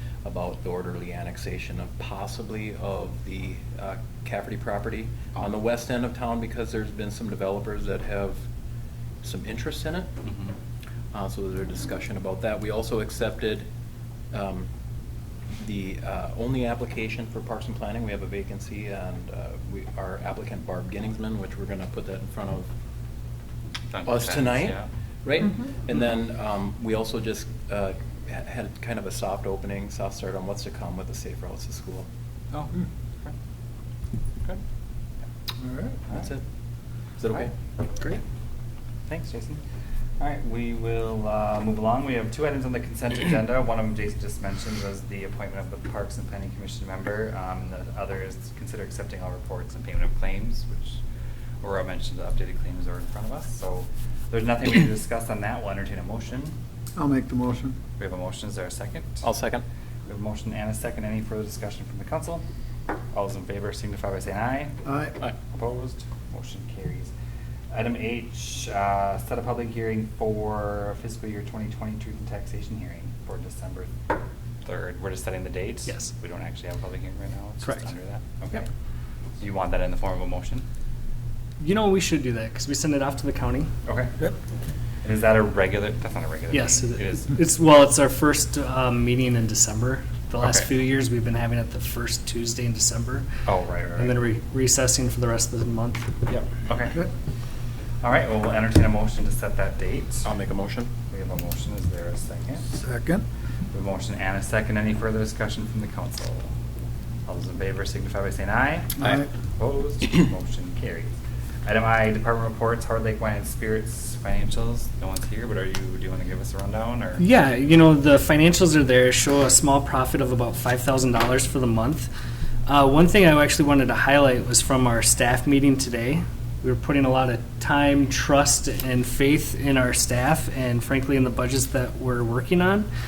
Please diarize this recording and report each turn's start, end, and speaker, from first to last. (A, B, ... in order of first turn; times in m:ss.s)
0:00.2-0:08.4 A
0:09.2-0:10.1 A
0:10.2-0:10.5 B
0:11.1-0:13.6 A
0:14.3-0:14.7 A
0:15.5-0:22.7 A
0:23.9-0:24.9 B
0:24.1-0:32.1 A
0:32.5-0:33.3 B
0:35.6-0:36.0 C
0:36.1-0:36.4 A
0:37.2-0:37.5 A
0:39.1-0:39.6 B
0:40.2-0:51.0 B
0:51.6-0:56.6 B
0:57.0-0:57.8 C
0:58.0-0:59.3 B
0:59.2-0:59.6 A
1:00.1-1:02.4 B
1:03.1-1:04.8 B
1:04.9-1:05.1 C
1:05.4-1:07.1 B
1:07.7-1:13.9 B
1:14.6-1:18.7 B
1:19.4-1:20.7 B
1:21.6-1:23.7 D
1:23.9-1:24.2 B
1:25.0-1:27.3 B
1:26.5-1:33.3 D
1:30.4-1:30.7 B
1:33.5-1:34.2 B
1:34.0-1:36.1 D
1:36.3-1:37.0 B
1:38.0-1:40.3 B
1:40.2-1:40.9 A
1:41.1-1:42.7 B
1:42.7-1:43.2 C
1:43.7-1:46.5 B
1:47.3-1:51.1 B
1:49.0-1:49.3 C
1:51.6-1:57.2 B
1:57.2-2:02.1 D
2:02.7-2:12.9 D